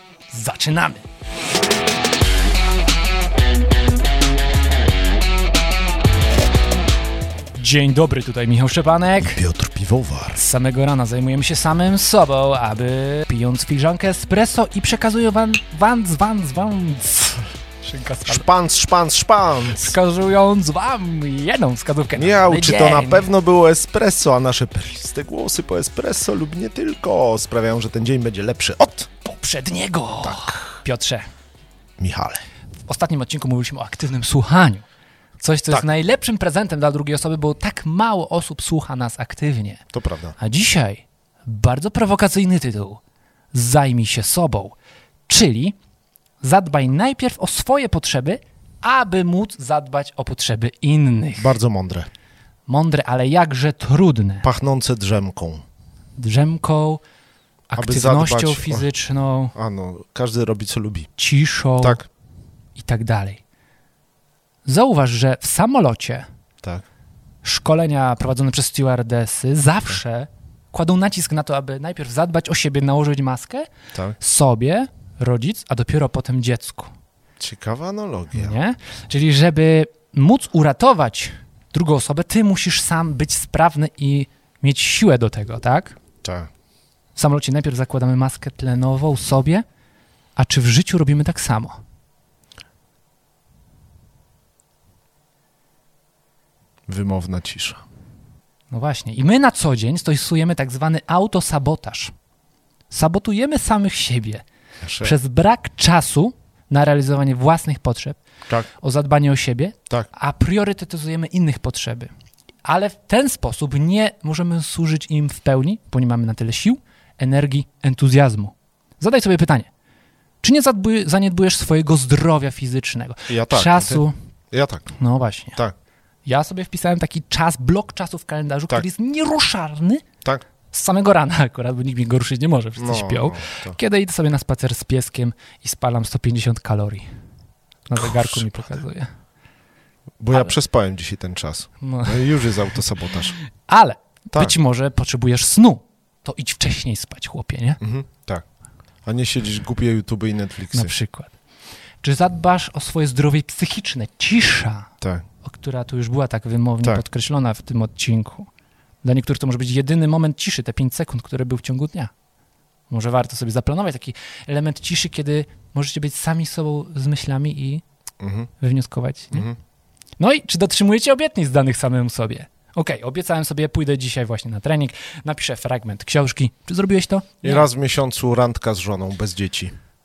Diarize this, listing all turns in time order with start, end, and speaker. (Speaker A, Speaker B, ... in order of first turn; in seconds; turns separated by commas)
Speaker A: 0.3-1.0, Speaker A: 7.5-9.4, Speaker B: 9.2-10.4, Speaker A: 10.3-18.4, Speaker B: 18.3-19.9, Speaker A: 19.7-23.3, Speaker B: 22.1-29.1, Speaker A: 29.2-31.2, Speaker B: 30.2-30.7, Speaker B: 32.0-32.4, Speaker A: 32.9-34.9, Speaker A: 35.4-39.8, Speaker B: 39.9-40.4, Speaker A: 40.4-43.0, Speaker A: 43.5-44.8, Speaker A: 45.3-45.8, Speaker A: 46.4-51.5, Speaker B: 51.4-52.1, Speaker A: 52.7-54.5, Speaker B: 54.4-55.6, Speaker A: 56.2-57.0, Speaker A: 57.7-59.5, Speaker B: 57.8-58.9, Speaker B: 59.5-61.1, Speaker A: 61.2-62.0, Speaker B: 61.8-62.1, Speaker A: 62.8-63.4, Speaker A: 64.7-66.3, Speaker A: 67.4-76.9, Speaker B: 77.4-78.6, Speaker A: 78.3-86.0, Speaker B: 86.2-86.5, Speaker A: 87.2-89.6, Speaker A: 90.3-91.8, Speaker B: 96.9-97.8, Speaker A: 98.7-102.1, Speaker A: 102.9-104.4, Speaker B: 104.8-105.2, Speaker A: 105.0-108.2, Speaker A: 108.8-112.1, Speaker A: 112.6-119.7, Speaker A: 120.4-124.1, Speaker B: 123.3-124.9, Speaker A: 124.9-125.6, Speaker A: 126.2-130.0, Speaker A: 130.7-137.1, Speaker B: 132.8-133.8, Speaker A: 137.9-139.1, Speaker B: 137.9-138.8, Speaker B: 140.2-143.3, Speaker A: 141.8-142.5, Speaker A: 143.7-147.8, Speaker B: 147.8-148.4, Speaker B: 149.1-150.9, Speaker A: 150.7-151.3, Speaker A: 152.0-154.9, Speaker A: 155.4-158.5, Speaker A: 159.0-162.1, Speaker A: 162.9-167.8, Speaker B: 168.2-168.5, Speaker A: 168.6-169.5, Speaker B: 169.3-169.6, Speaker A: 170.2-177.7, Speaker B: 177.4-179.7